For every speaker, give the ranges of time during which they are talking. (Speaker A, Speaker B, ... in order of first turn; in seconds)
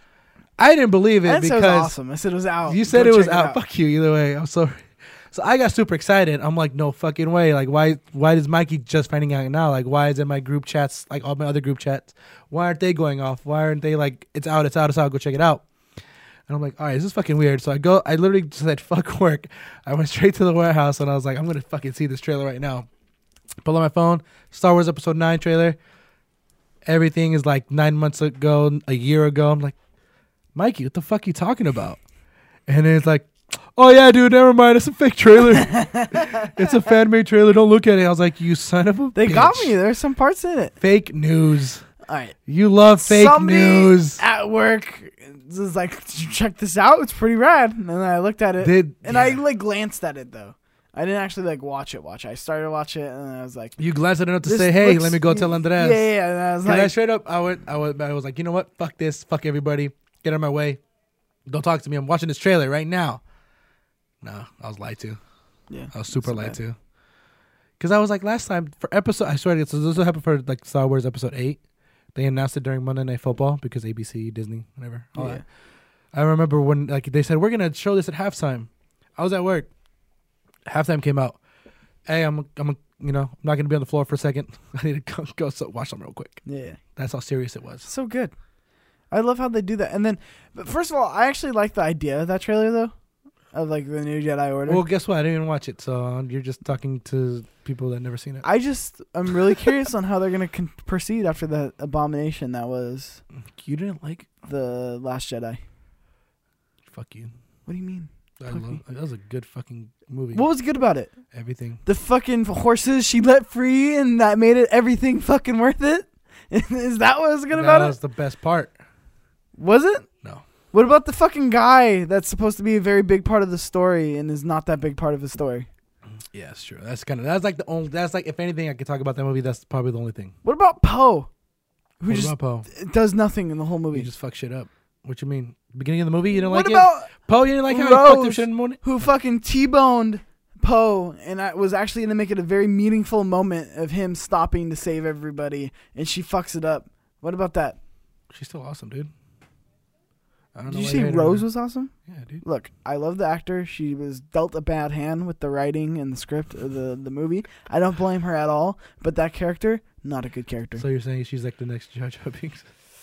Speaker A: 0.6-1.9, 2.6-15.6, 16.5-22.9, 23.6-25.8, 26.8-29.7, 30.5-32.0, 32.7-39.7, 40.8-41.8, 42.5-44.2, 48.6-49.4, 53.8-56.1, 56.6-60.8, 61.5-63.2, 64.2-65.2, 65.9-66.8, 67.8-71.6, 72.1-75.4, 76.1-79.7, 80.7-81.4, 82.0-86.4, 87.0-87.9, 94.7-98.5, 103.4-104.3, 106.9-107.3, 108.4-110.5, 111.3-111.8, 117.5-118.7, 126.1-130.3, 132.1-132.7, 133.9-138.8, 148.3-149.1, 150.5-151.5, 152.1-152.4, 160.8-162.7
Speaker B: 1.2-3.6, 35.7-36.5, 39.1-40.8, 42.0-42.4, 43.0-53.8, 54.4-56.9, 65.7-66.6, 75.1-75.4, 86.5-86.8, 87.8-88.3, 89.1-92.9, 93.5-94.8, 98.4-103.2, 104.4-105.6, 107.7-108.8, 110.3-111.1, 111.8-118.0, 119.5-120.1, 120.7-125.7, 130.4-131.3, 132.0-134.1, 136.4-147.8, 150.7-160.8